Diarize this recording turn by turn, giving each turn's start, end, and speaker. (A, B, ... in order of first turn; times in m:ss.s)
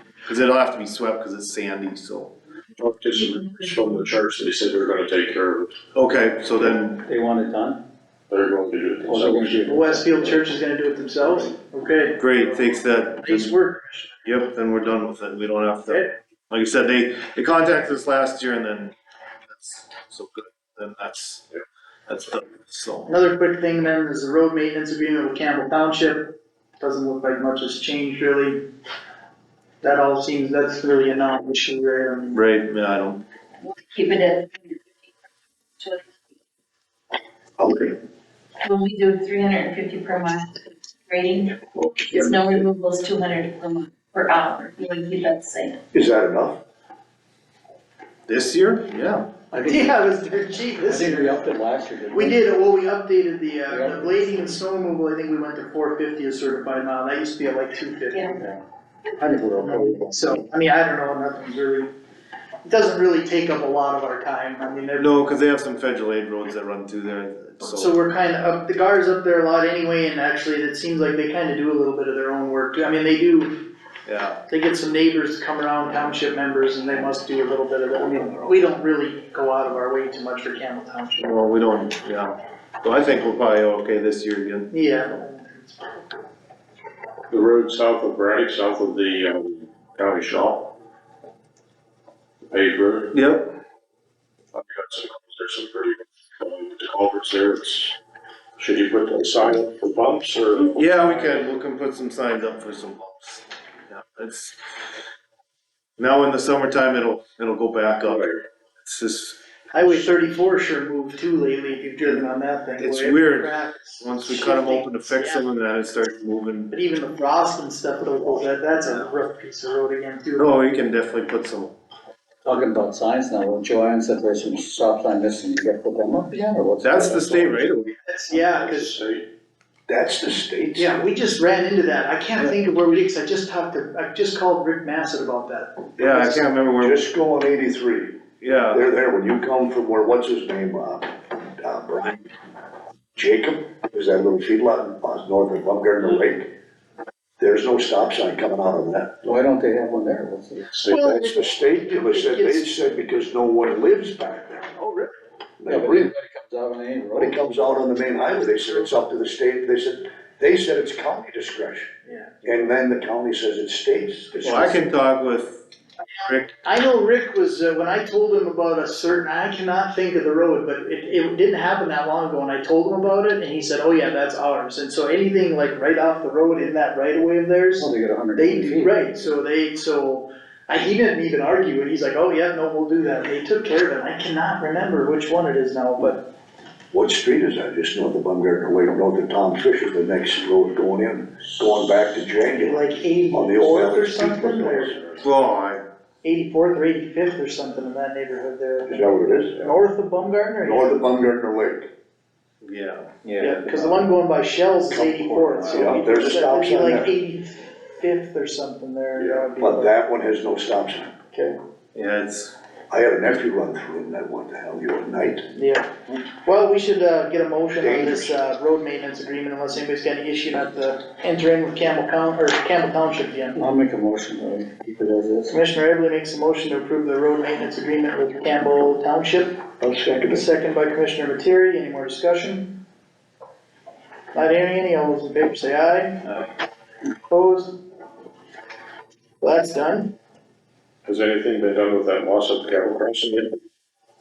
0:00.3-0:02.3 A
0:02.8-0:05.8 B
0:06.0-0:07.0 A
0:07.0-0:07.8 C
0:08.3-0:09.7 B
0:09.0-0:10.4 C
0:09.6-0:14.2 D
0:12.2-0:13.5 A
0:14.2-0:18.9 A
0:19.5-0:21.4 A
0:22.1-0:23.2 A
0:23.1-0:28.7 D
0:29.8-0:32.4 D
0:32.3-0:33.2 A
0:33.6-0:34.9 E
0:35.8-0:36.1 E
0:37.6-0:38.0 F
0:38.6-0:45.8 E
0:41.8-0:42.6 F
0:45.9-0:46.6 F
0:48.3-0:49.2 A
0:49.5-0:50.0 C
0:49.6-0:51.4 D
0:50.8-0:52.4 C
0:52.1-0:58.3 D
0:53.7-0:54.3 C
0:58.4-0:58.6 C
0:59.2-1:00.4 C
0:59.6-1:01.9 D
1:02.6-1:05.3 D
1:05.0-1:08.0 A
1:07.6-1:13.6 D
1:14.1-1:14.4 A
1:14.5-1:21.3 D
1:18.0-1:18.6 F
1:21.2-1:24.7 A
1:24.7-1:26.2 D
1:27.3-1:30.7 B
1:32.5-1:33.1 B
1:33.1-1:33.5 A
1:34.5-1:38.0 B
1:38.6-1:41.5 B
1:40.7-1:44.6 A
1:46.0-1:49.4 A
1:48.0-1:48.4 B
1:49.7-1:55.4 D
1:52.8-1:56.7 A
1:56.7-2:00.6 D
2:00.4-2:01.8 A
2:02.4-2:07.7 C
2:06.8-2:08.0 A
2:08.1-2:08.9 D
2:08.3-2:09.3 B
2:09.9-2:11.0 F
2:10.8-2:16.5 D
2:16.0-2:17.0 A
2:16.8-2:18.2 F
2:18.4-2:18.8 A
2:18.7-2:22.3 F
2:23.2-2:26.5 F
2:27.4-2:29.2 F
2:29.2-2:30.7 C
2:30.6-2:31.2 B
2:30.9-2:32.7 D
2:31.0-2:36.1 F
2:35.7-2:37.4 C
2:37.2-2:41.9 F
2:42.0-2:42.5 D
2:42.4-2:44.9 F
2:44.4-2:45.6 A
2:46.2-2:46.6 A
2:46.5-3:06.3 D
2:57.8-2:59.0 C
3:06.9-3:15.0 F
3:12.6-3:15.0 D
3:15.2-3:15.8 A
3:16.2-3:21.0 D
3:18.9-3:19.7 F
3:20.6-3:21.9 F
3:22.6-3:24.1 A
3:23.4-3:29.9 D
3:24.9-3:27.1 F
3:25.6-3:26.0 A
3:29.2-3:29.5 B
3:29.6-3:31.2 F
3:32.0-3:32.5 A
3:32.9-3:35.5 F
3:35.5-3:43.6 D
3:37.8-3:38.4 F
3:43.6-3:45.6 C
3:45.5-3:49.7 D
3:49.8-3:50.5 F
3:50.3-3:52.8 D
3:54.3-3:56.3 D
3:57.3-3:57.8 D
3:59.4-4:00.1 D
4:01.0-4:03.6 B